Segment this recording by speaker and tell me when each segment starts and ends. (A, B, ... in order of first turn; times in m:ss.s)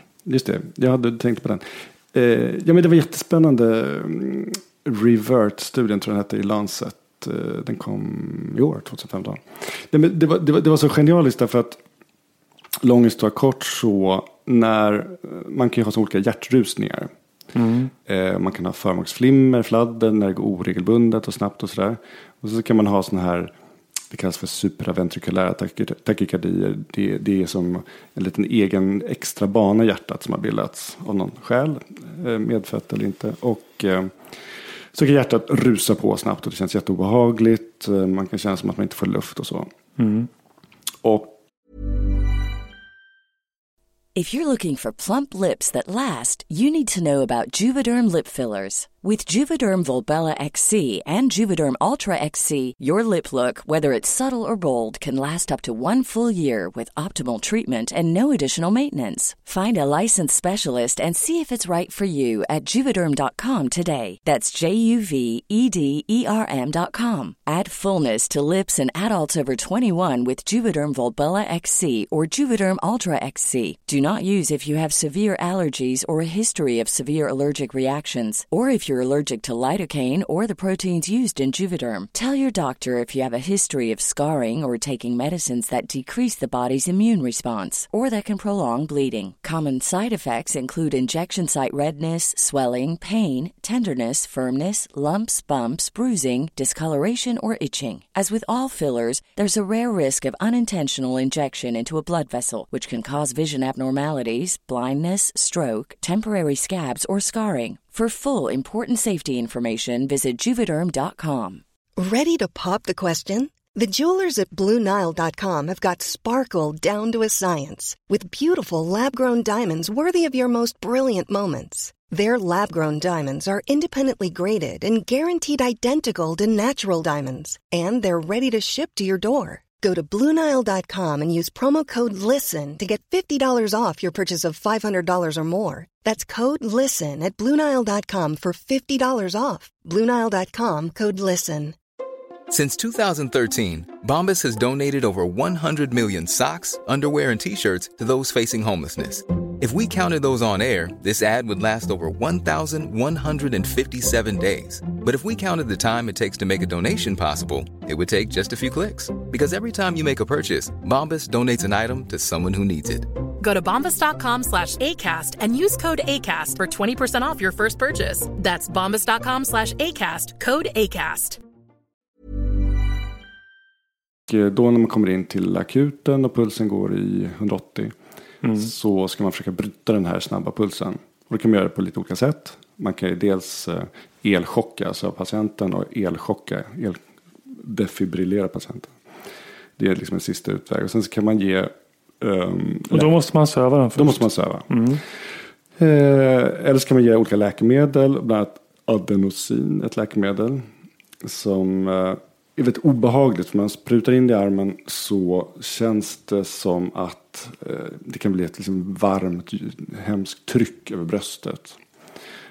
0:00.2-0:11.8 A
0:12.8-0:17.1 A
0:17.5-0:17.9 B
0:18.0-0:23.5 A
0:24.1-0:34.2 A
0:34.9-0:39.7 A
0:40.0-0:40.3 B
0:41.0-0:41.4 A
0:44.1-1:51.6 C
1:52.0-2:21.8 D
2:22.5-2:43.1 E
2:43.4-2:51.4 F
2:54.3-2:57.9 A
2:58.4-2:58.7 B
2:58.5-3:08.9 A
3:09.8-3:13.1 A
3:12.9-3:15.0 B
3:14.0-3:14.8 A
3:15.8-3:20.6 A
3:21.2-3:31.8 A